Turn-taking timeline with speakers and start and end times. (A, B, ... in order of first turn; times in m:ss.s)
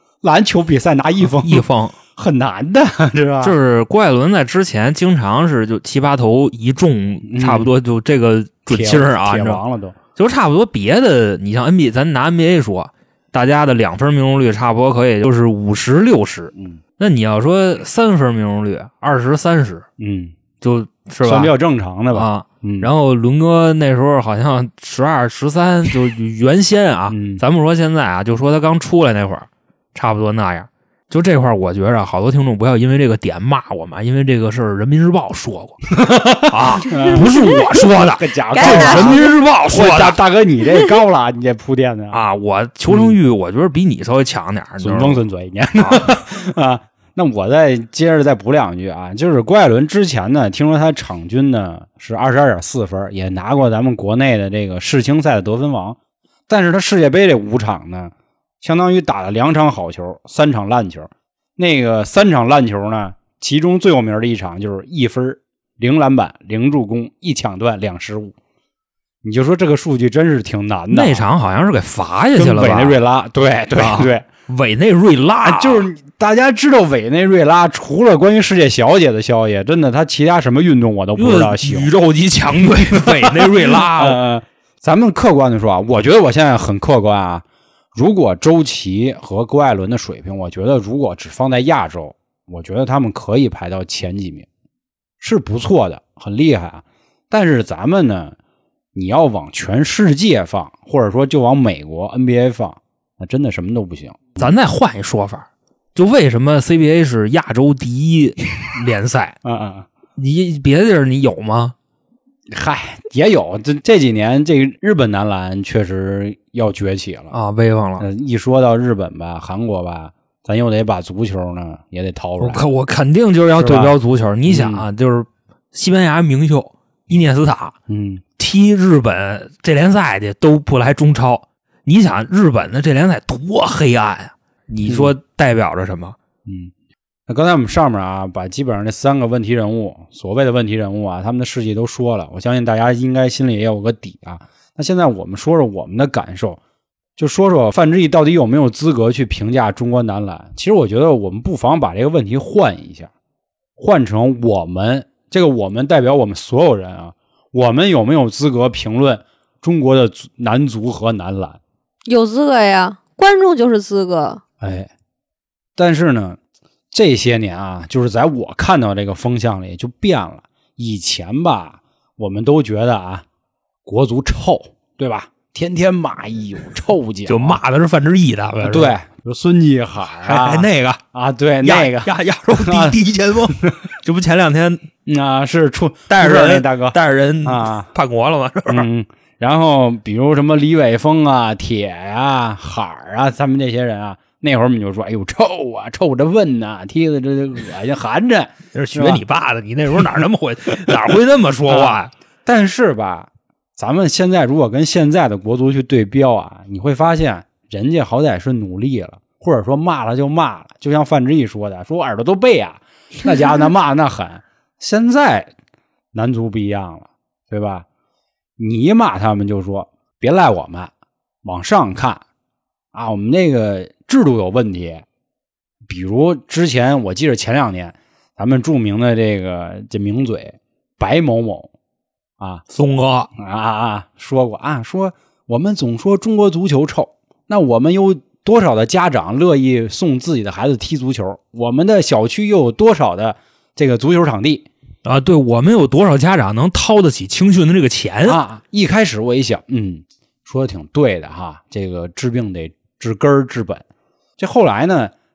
0:00.2-0:03.6 A
0:01.2-0:02.0 B
0:03.4-0:09.6 B
0:07.2-0:07.7 A
0:08.7-0:10.0 A
0:10.2-0:19.8 B
0:16.5-0:16.8 A
0:20.0-0:20.4 A
0:20.6-0:21.5 B
0:21.2-0:22.9 A
0:22.1-0:35.8 B
0:27.1-0:27.4 A
0:36.0-0:37.3 A
0:36.4-0:40.2 B
0:36.9-0:37.8 C
0:37.9-0:42.2 A
0:38.5-0:39.3 C
0:42.1-0:45.2 B
0:42.9-0:43.2 A
0:44.8-0:56.0 A
0:45.8-0:46.1 B
0:56.5-1:08.4 A
1:09.2-1:11.2 A
1:10.9-1:13.0 B
1:12.4-1:14.3 A
1:13.8-1:15.9 B
1:15.4-1:21.9 A
1:21.2-1:24.2 B
1:22.6-1:34.5 A
1:35.2-1:38.4 A
1:38.9-1:44.5 A
1:44.4-1:49.4 B
1:49.4-1:49.9 A
1:50.2-1:51.8 B
1:52.5-1:57.4 A
1:57.3-1:58.1 B
1:58.0-2:02.6 A
2:02.4-2:07.8 B
2:03.6-2:03.9 A
2:04.5-2:04.8 A
2:07.9-2:08.2 A
2:08.4-2:16.2 B
2:14.9-2:15.1 A
2:16.5-2:16.7 A
2:17.3-2:26.6 A
2:27.2-2:33.1 A
2:33.8-2:41.6 A
2:42.1-2:44.4 C
2:44.6-2:44.9 A
2:45.8-2:46.4 A
2:46.9-2:53.2 A
2:53.9-2:57.6 A
2:57.3-2:59.0 B
2:58.6-3:03.0 A
3:00.2-3:01.0 B
3:01.6-3:04.8 B
3:03.5-3:03.8 A
3:05.1-3:07.9 A
3:06.1-3:08.9 B
3:08.7-3:19.2 A
3:18.7-3:22.1 B
3:21.7-3:35.5 A
3:36.1-3:37.8 A
3:38.6-3:40.9 A
3:41.4-3:42.2 A
3:42.9-3:45.0 A
3:45.9-3:51.7 A
3:52.7-3:53.3 B
3:53.4-4:04.7 A
4:05.0-4:08.4 B
4:08.2-4:13.8 A
4:14.4-4:15.1 A